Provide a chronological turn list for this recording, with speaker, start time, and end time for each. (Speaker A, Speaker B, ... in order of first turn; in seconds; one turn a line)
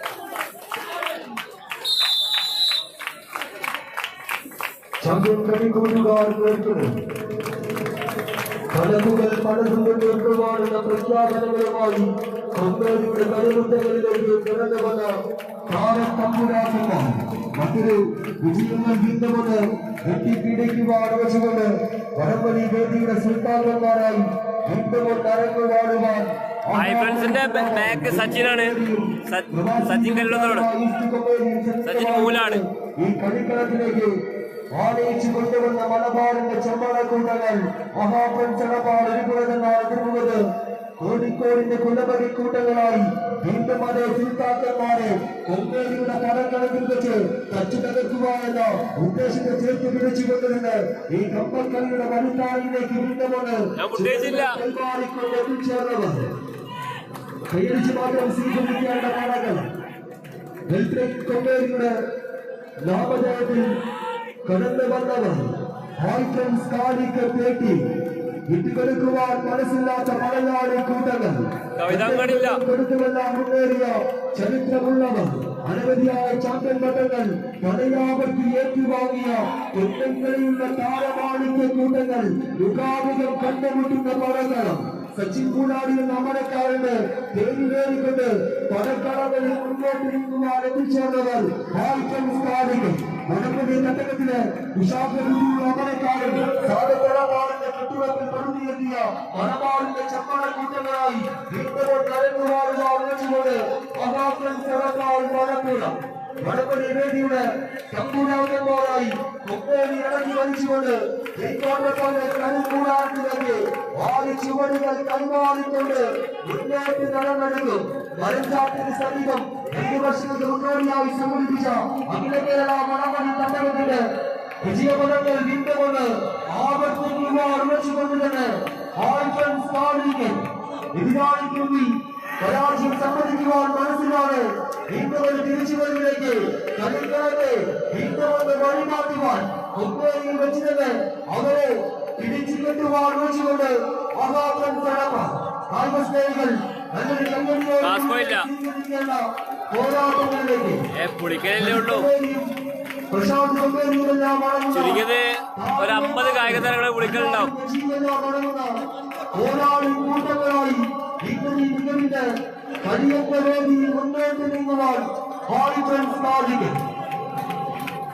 Speaker A: 5.0-6.9
Speaker A: 8.7-15.1
Speaker A: 15.7-34.1
Speaker B: 26.7-30.7
Speaker B: 31.8-32.6
Speaker A: 34.7-40.4
Speaker A: 41.0-56.3
Speaker B: 53.8-54.6
Speaker A: 57.5-59.7
Speaker A: 60.7-61.9
Speaker A: 62.8-63.7
Speaker A: 64.5-67.8
Speaker A: 68.5-124.0
Speaker B: 71.8-72.6
Speaker A: 124.6-150.8
Speaker B: 147.8-148.5
Speaker B: 150.9-152.1
Speaker A: 151.6-152.5
Speaker A: 153.1-155.0
Speaker B: 154.7-157.5
Speaker A: 155.6-158.7
Speaker A: 159.3-162.2
Speaker A: 162.8-166.8